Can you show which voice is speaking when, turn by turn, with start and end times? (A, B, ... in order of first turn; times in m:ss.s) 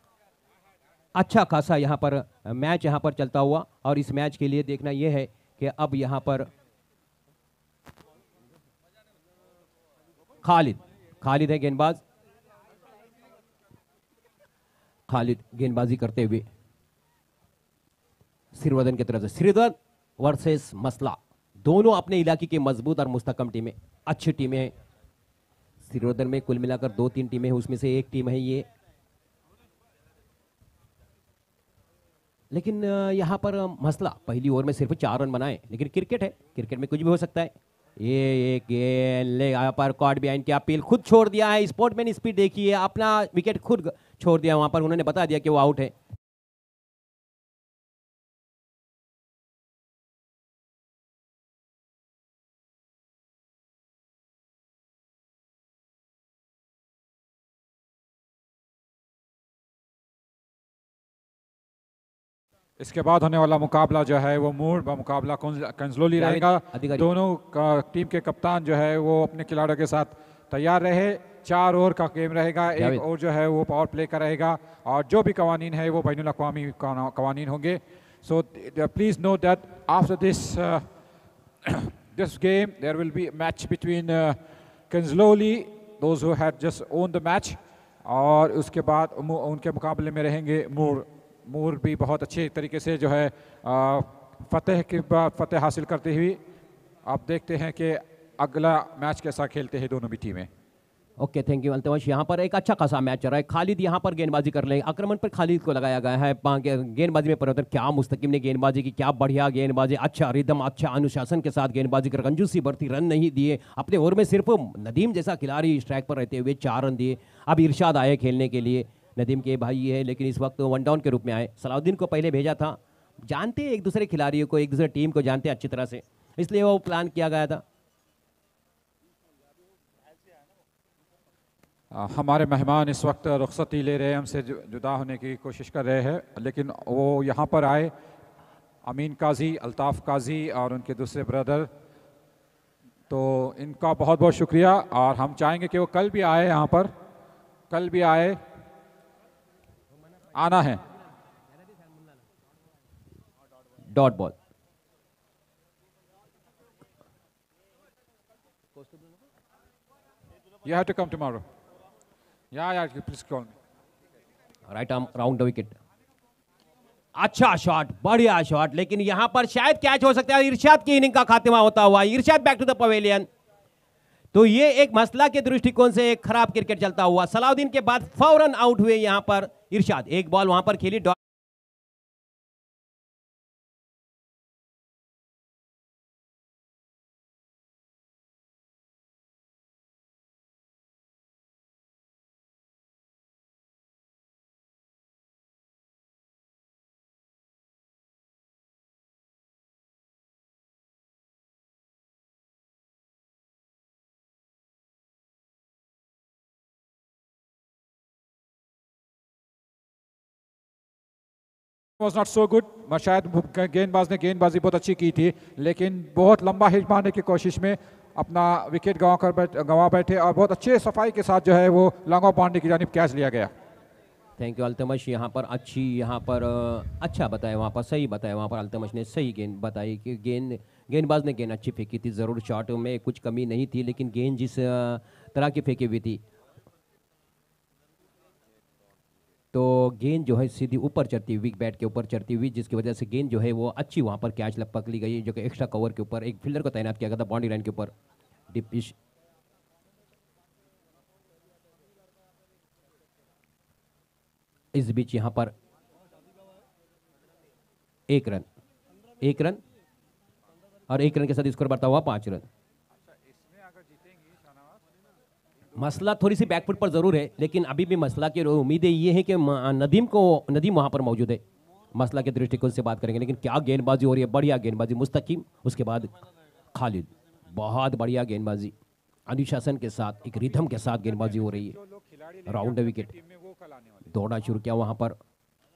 0:01.1-0:06.5 A
0:10.4-0:12.0 A
0:15.1-0:16.5 A
0:18.5-0:24.7 A
0:25.8-0:28.7 A
0:32.5-0:45.9 A
1:02.8-1:20.9 B
1:06.2-1:07.1 A
1:12.8-1:13.0 A
1:21.6-1:24.4 B
1:24.9-1:36.4 B
1:37.1-1:40.5 B
1:41.2-2:07.6 A
2:11.9-2:17.9 B
2:18.8-2:21.7 B
2:23.1-2:26.9 B
2:27.7-2:28.4 B
2:30.3-2:30.8 B
2:33.9-2:34.3 A
2:40.6-2:41.4 B
2:42.5-2:43.5 B
2:44.7-2:45.8 A
2:47.2-2:53.3 A
2:54.3-3:01.2 A
3:32.0-3:43.5 B
3:44.4-3:56.2 A
3:59.5-4:07.9 A
4:08.5-4:08.9 A
4:14.7-4:15.5 A
4:18.1-4:18.4 A
4:19.2-4:19.6 A
4:20.9-4:22.5 A
4:23.5-4:24.4 B
4:25.8-4:31.4 A
4:31.9-4:36.1 A
4:36.7-4:38.7 A
4:39.3-4:41.8 A
4:41.8-4:44.0 B
4:42.5-4:43.1 A
4:44.1-4:45.2 A